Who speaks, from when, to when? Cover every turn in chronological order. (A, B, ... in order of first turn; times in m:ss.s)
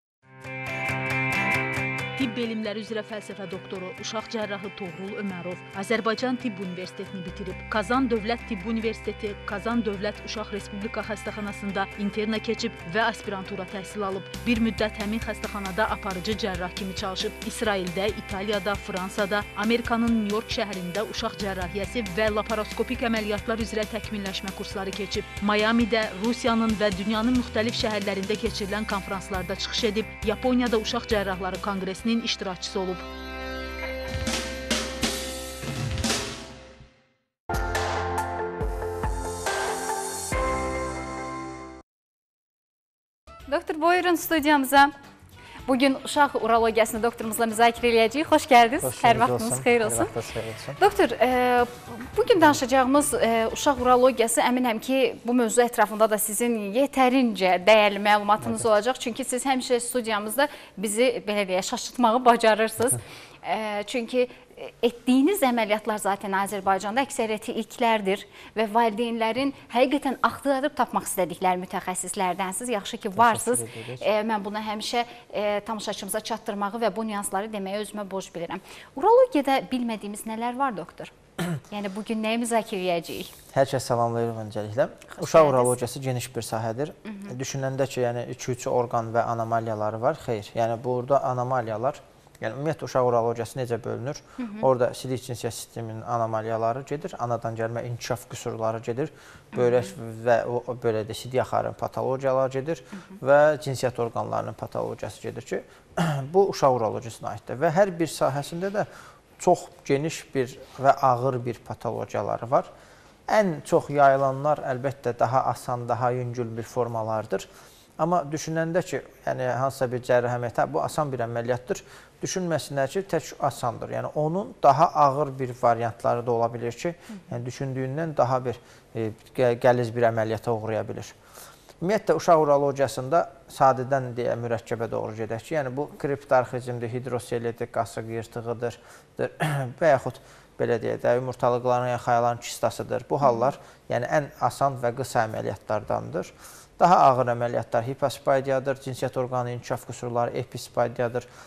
0:02.2-0:33.0 A
0:43.5-0:44.9 B
0:45.7-0:50.1 B
0:48.8-0:50.8 C
0:50.8-1:23.3 B
0:58.4-0:58.7 C
1:13.1-1:14.0 C
1:23.5-1:52.7 C
1:25.1-1:25.7 B
1:34.4-1:34.7 B
1:53.3-2:11.2 C
2:11.8-2:31.2 C